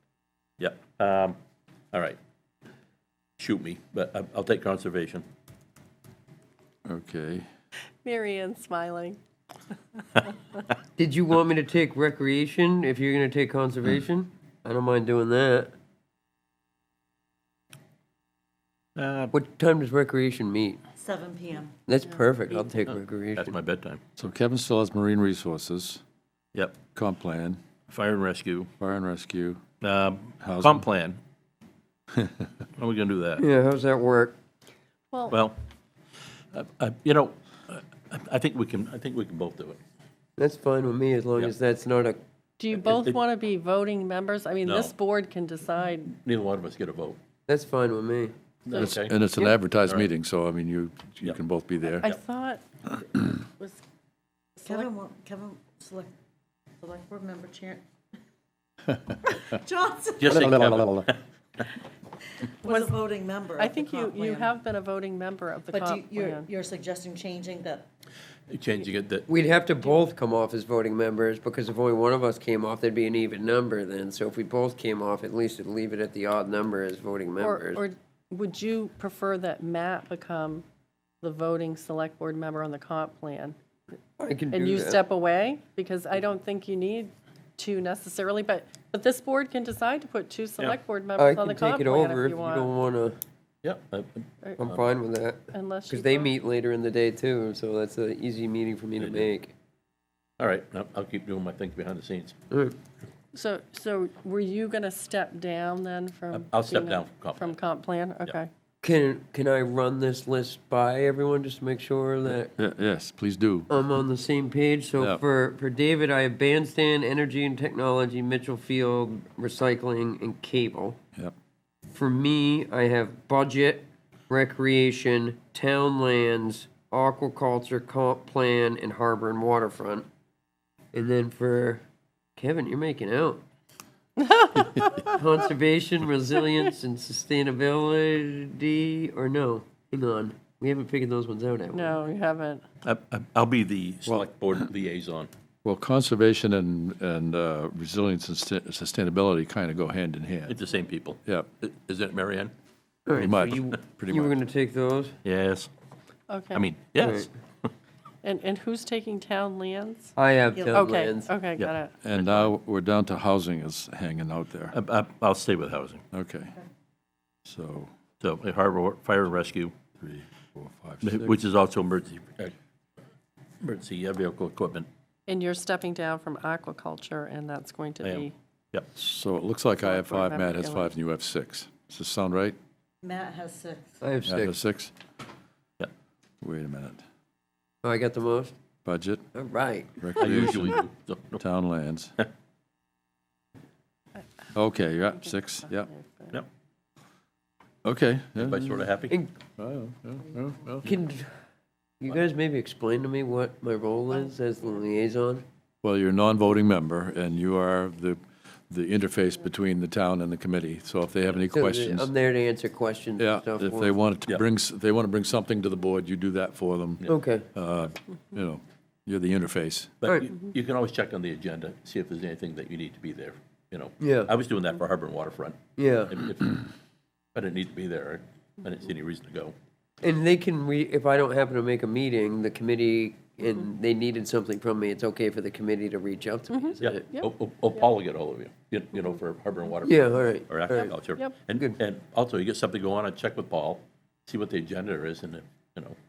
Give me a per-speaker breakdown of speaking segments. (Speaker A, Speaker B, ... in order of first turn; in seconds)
Speaker A: 0.6-1.4, 1.9-2.2, 3.4-5.2, 18.9-19.3, 22.9-24.0, 27.9-28.7, 29.8-31.2, 32.8-33.4, 35.3-35.6, 36.5-39.8, 42.8-43.2, 44.6-44.9, 46.1-47.2, 48.6-49.2, 60.2-61.2, 68.5-69.3, 93.6-94.9, 99.0-99.3, 100.4-102.3, 106.3-107.6, 142.8-145.3, 150.5-152.5, 155.2-155.7, 156.5-157.7, 161.6-162.5, 164.7-166.0, 168.2-169.7, 171.0-172.5, 173.6-174.9, 178.0-178.9, 190.2-191.4, 198.4-199.2, 220.0-226.6, 227.3-229.5, 236.8-246.0
Speaker B: 6.8-7.5, 24.2-26.0, 26.9-27.6, 28.8-29.6, 30.4-30.8, 48.7-52.1, 60.3-61.1, 112.3-113.7, 145.6-150.6, 153.1-154.3, 162.0-164.7, 166.1-166.5, 167.4-167.9, 170.0-171.3, 178.9-182.6, 184.2-184.9, 186.4-187.0, 188.8-189.3, 189.9-190.8, 191.4-192.1, 194.5-195.9, 197.8-198.7, 199.6-200.9, 205.8-212.1, 213.2-219.9
Speaker C: 8.0-9.2, 42.6-46.1, 52.0-52.6, 62.6-62.9, 63.6-66.5, 77.4-80.6, 81.2-83.5, 84.5-92.7, 95.5-96.3, 103.3-108.5, 134.2-135.1, 141.7-142.6, 156.3-156.6, 158.2-160.1, 160.7-161.9, 175.3-178.3, 179.8-180.9, 195.7-196.3, 236.5-237.3, 240.7-241.3
Speaker D: 11.0-15.7, 19.3-20.8, 21.9-23.5, 33.4-34.4, 40.4-42.2, 47.5-48.3, 69.3-77.8, 84.2-85.0, 91.2-93.2, 94.6-99.5, 102.5-102.8, 108.8-112.5, 113.7-121.0, 121.9-130.1, 130.9-131.8, 132.3-133.4, 135.0-142.0, 153.1-155.1, 157.0-157.3, 160.2-161.3, 184.0-184.5, 187.8-188.5, 189.3-189.9, 200.8-201.3, 202.0-205.4, 211.5-213.9, 217.1-217.5, 224.0-224.3, 225.8-226.2, 230.0-237.0, 239.8-240.9
Speaker E: 21.0-21.7, 54.6-56.1, 56.8-57.8, 59.1-60.4, 62.4-64.5, 65.7-67.8, 160.5-160.9, 183.0-184.0